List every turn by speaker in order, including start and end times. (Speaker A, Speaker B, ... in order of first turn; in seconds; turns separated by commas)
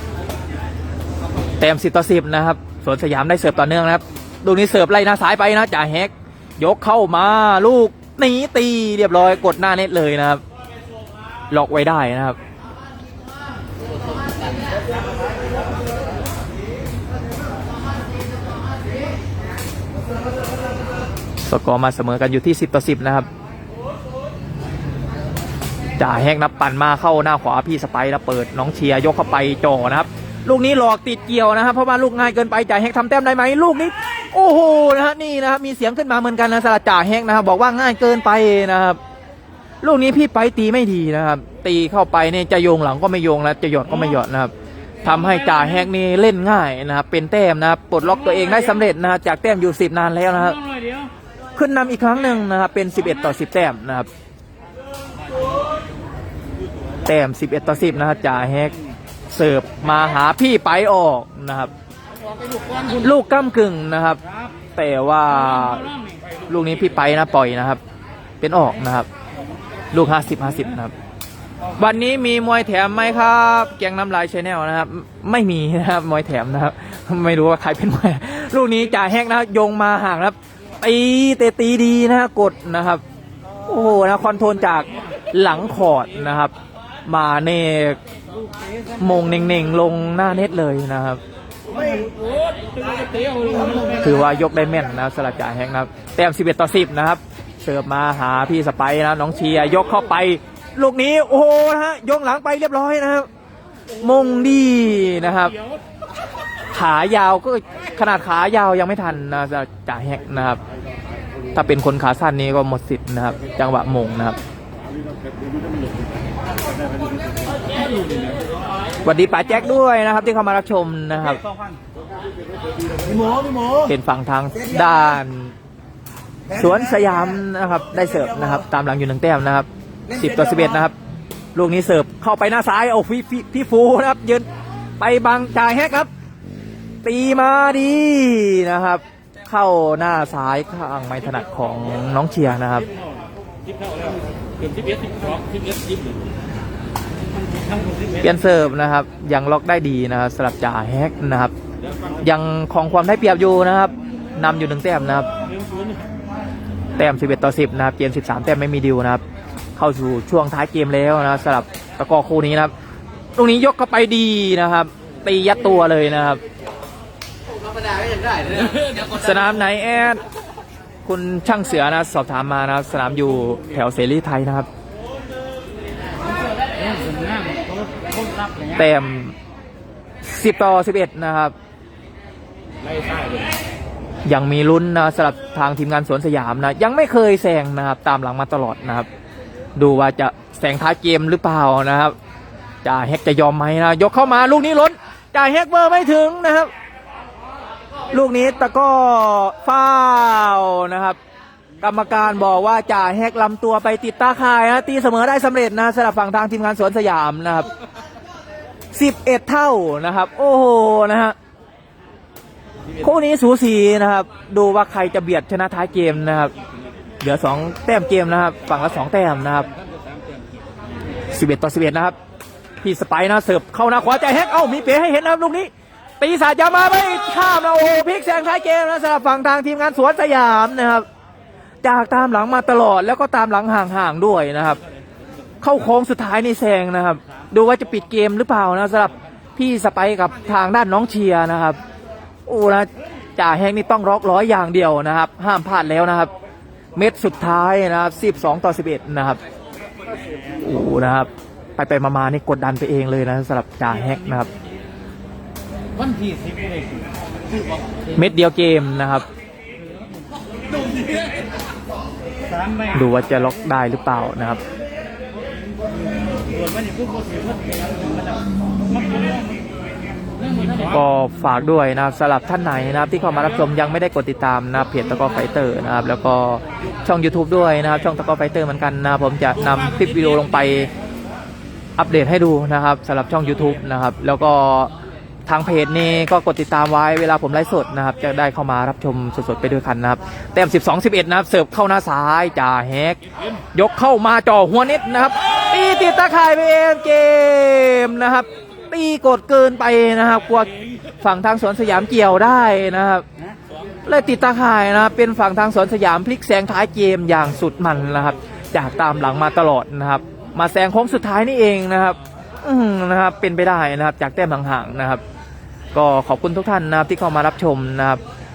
Speaker A: 1.6-10.4, Speaker A: 11.5-12.4, Speaker A: 21.4-23.3, Speaker A: 26.0-39.0, Speaker A: 39.8-44.5, Speaker A: 45.0-50.6, Speaker A: 51.5-54.1, Speaker A: 57.0-58.7, Speaker A: 59.3-61.7, Speaker A: 63.0-64.2, Speaker A: 64.7-65.9, Speaker A: 66.5-67.8, Speaker A: 68.4-69.1, Speaker A: 69.9-70.9, Speaker A: 71.8-83.0, Speaker A: 83.6-86.5, Speaker A: 87.0-88.0, Speaker A: 89.0-91.2, Speaker B: 91.8-94.0, Speaker A: 94.0-103.3, Speaker A: 104.0-105.5, Speaker A: 106.7-110.6, Speaker A: 111.5-114.4, Speaker B: 117.8-118.3, Speaker A: 119.0-121.4, Speaker C: 123.0-123.9, Speaker A: 123.9-125.5, Speaker C: 124.5-125.2, Speaker C: 126.5-128.6, Speaker A: 126.6-130.9, Speaker C: 130.1-130.9, Speaker A: 131.5-134.5, Speaker A: 135.0-136.1, Speaker A: 137.0-142.8, Speaker B: 143.7-146.2, Speaker A: 148.2-151.5, Speaker A: 152.2-155.3, Speaker A: 157.0-159.2, Speaker A: 159.8-162.7, Speaker A: 163.3-166.4, Speaker A: 169.1-170.2, Speaker A: 171.0-174.7, Speaker B: 177.1-177.6, Speaker A: 178.7-179.3, Speaker A: 180.2-181.5, Speaker B: 182.8-183.6, Speaker A: 184.2-189.1, Speaker A: 189.8-192.2, Speaker A: 192.8-196.7, Speaker A: 198.1-201.2, Speaker A: 201.8-207.7, Speaker A: 208.9-211.3, Speaker A: 213.0-216.5, Speaker A: 217.2-219.7, Speaker B: 219.7-220.6, Speaker A: 221.3-222.2, Speaker A: 222.8-231.1, Speaker A: 231.8-234.8, Speaker A: 235.6-241.8, Speaker A: 242.4-246.3, Speaker A: 246.9-249.4, Speaker A: 250.6-254.5, Speaker A: 258.1-259.2, Speaker A: 262.9-264.6, Speaker A: 270.9-280.9, Speaker A: 282.0-284.9, Speaker A: 285.4-293.2, Speaker A: 293.7-303.2, Speaker A: 304.1-315.2, Speaker A: 315.9-318.2